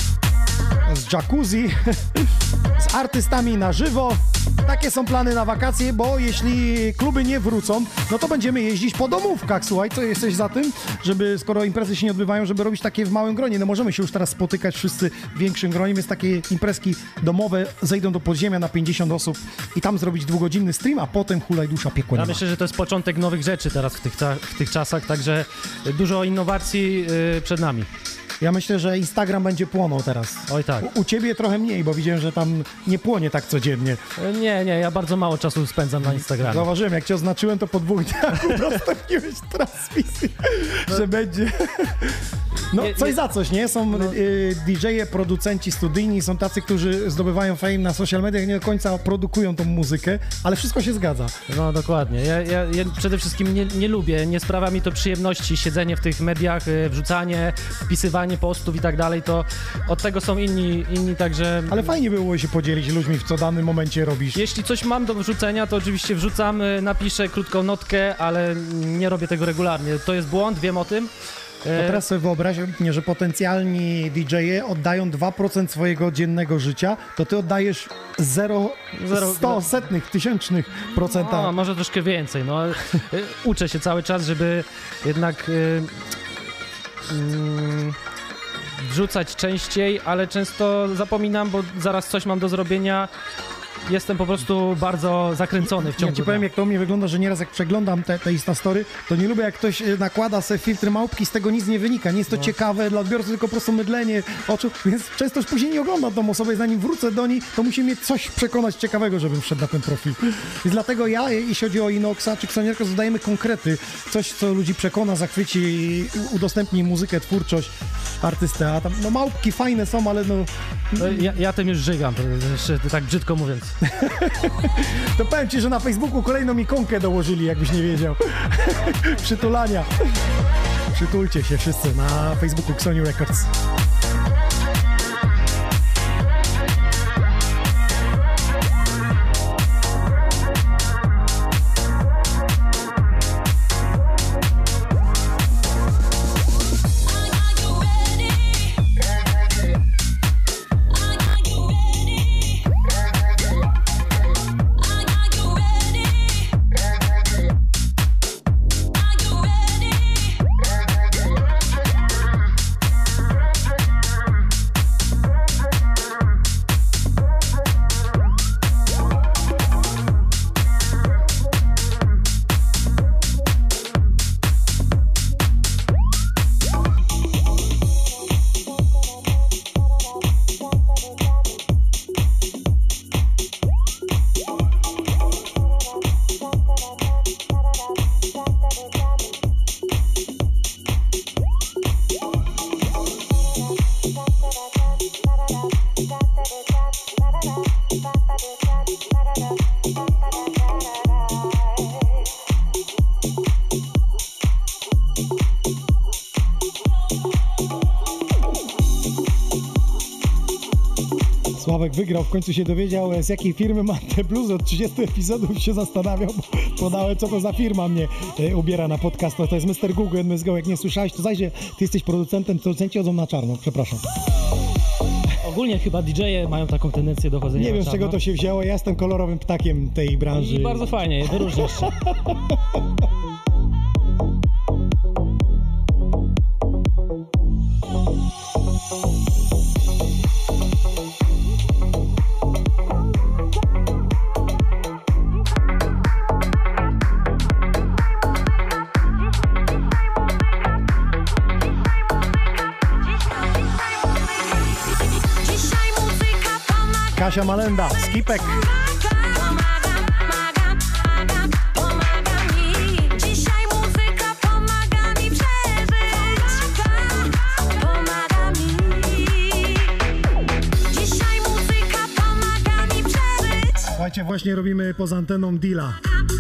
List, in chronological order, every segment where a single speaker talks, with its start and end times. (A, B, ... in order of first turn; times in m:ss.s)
0:00.8-0:22.4 A
0:22.1-0:27.9 B
0:28.4-0:34.0 A
0:30.5-0:30.9 B
0:34.2-0:36.7 B
0:36.1-0:51.4 A
0:42.7-0:43.2 B
0:43.9-0:44.2 B
0:51.5-1:02.0 B
1:01.7-1:04.4 A
1:04.3-1:11.1 B
1:11.6-1:12.0 B
1:11.8-1:21.5 A
1:19.0-1:19.7 B
1:21.1-1:25.9 B
1:27.1-1:28.0 B
1:28.8-1:33.1 B
1:33.9-1:36.5 B
1:35.6-2:01.3 A
2:01.0-2:03.8 B
2:03.8-2:09.9 A
2:10.9-2:13.5 A
3:31.5-3:44.0 A
3:45.4-3:48.2 B
3:47.6-3:52.6 A
3:50.4-3:51.9 B
4:17.2-4:18.6 A
4:23.0-4:24.4 C
4:28.3-4:29.0 C
4:31.4-4:33.4 C
4:33.9-4:36.0 A